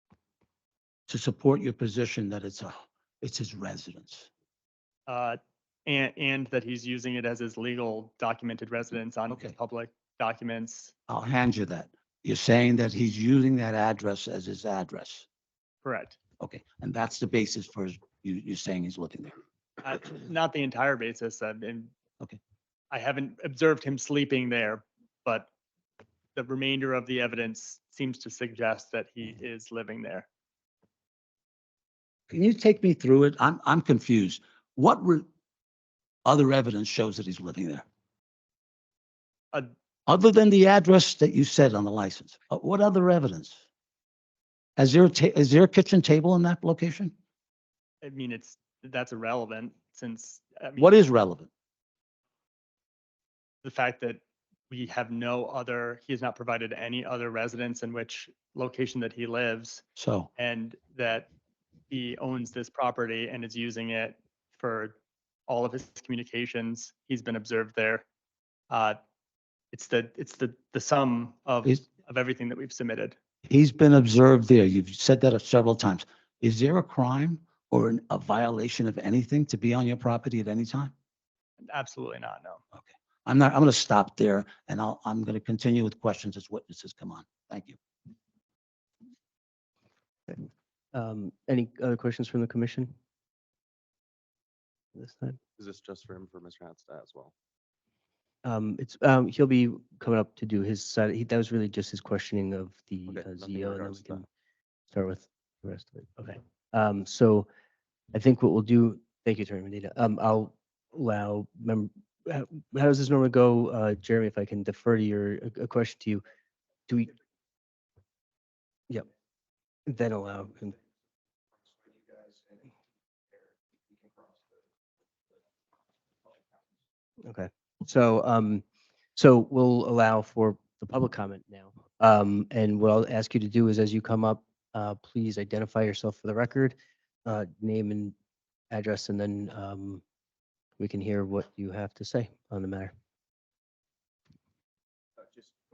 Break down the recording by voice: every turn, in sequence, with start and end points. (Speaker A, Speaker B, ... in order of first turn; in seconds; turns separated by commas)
Speaker A: 1.1-4.3, Speaker B: 5.1-10.9, Speaker A: 11.1-15.2, Speaker B: 15.8-16.2, Speaker A: 16.4-19.3, Speaker B: 19.8-21.9, Speaker B: 22.9-25.5, Speaker B: 26.3-30.2, Speaker A: 32.3-35.2, Speaker A: 36.2-37.8, Speaker A: 40.1-43.6, Speaker A: 44.8-47.1, Speaker B: 48.0-50.9, Speaker A: 50.8-51.5, Speaker B: 53.6-59.8, Speaker A: 60.0-60.3, Speaker B: 60.4-61.3, Speaker B: 61.9-65.0, Speaker B: 65.5-68.0, Speaker B: 68.7-69.0, Speaker B: 69.7-73.2, Speaker A: 73.5-80.9, Speaker B: 81.7-82.6, Speaker A: 82.7-87.8, Speaker C: 90.9-92.9, Speaker C: 94.9-95.4, Speaker D: 95.6-97.3, Speaker C: 98.4-104.2, Speaker D: 103.1-104.2, Speaker C: 104.9-107.5, Speaker C: 108.1-116.2, Speaker C: 119.9-120.7, Speaker C: 127.2-128.6, Speaker C: 129.2-138.1, Speaker C: 138.7-140.0, Speaker C: 140.8-142.9